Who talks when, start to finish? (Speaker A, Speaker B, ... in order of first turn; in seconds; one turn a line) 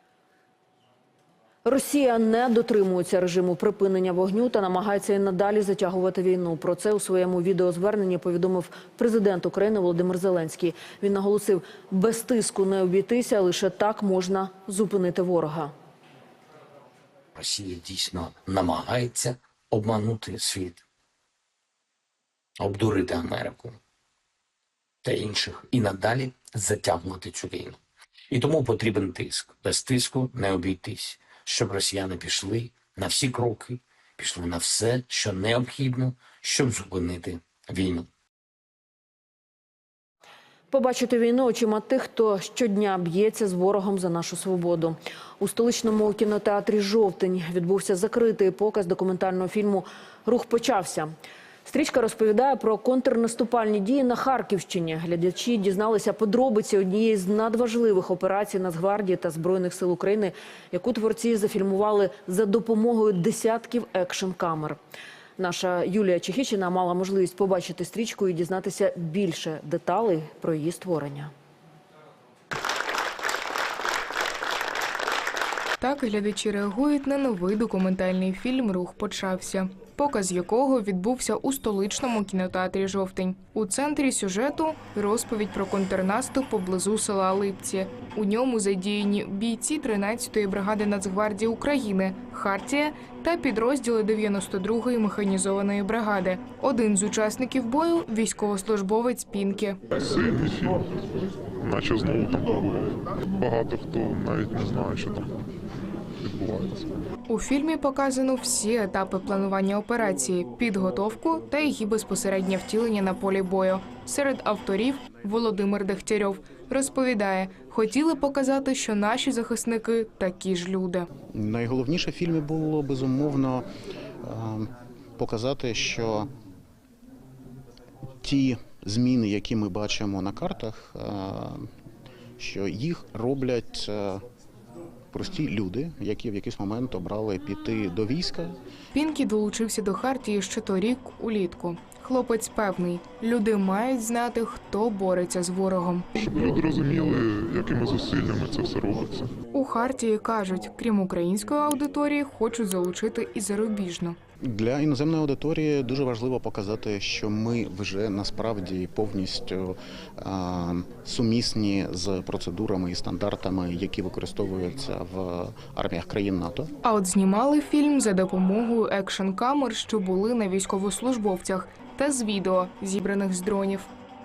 Speaker A: 1.6-15.7
Speaker B: 17.3-20.8
Speaker B: 22.6-23.8
Speaker B: 25.0-38.1
Speaker A: 40.7-51.1
Speaker A: 51.6-64.8
Speaker A: 65.4-71.3
Speaker C: 75.8-99.8
Speaker D: 100.0-101.0
Speaker D: 101.6-105.4
Speaker D: 106.2-106.9
Speaker C: 107.3-121.1
Speaker E: 121.3-123.7
Speaker E: 124.2-126.3
Speaker E: 128.2-131.7
Speaker E: 132.4-134.2
Speaker E: 135.1-138.6
Speaker C: 138.9-146.0
Speaker D: 146.2-149.3
Speaker C: 149.5-154.2
Speaker E: 154.4-166.7
Speaker C: 166.8-173.9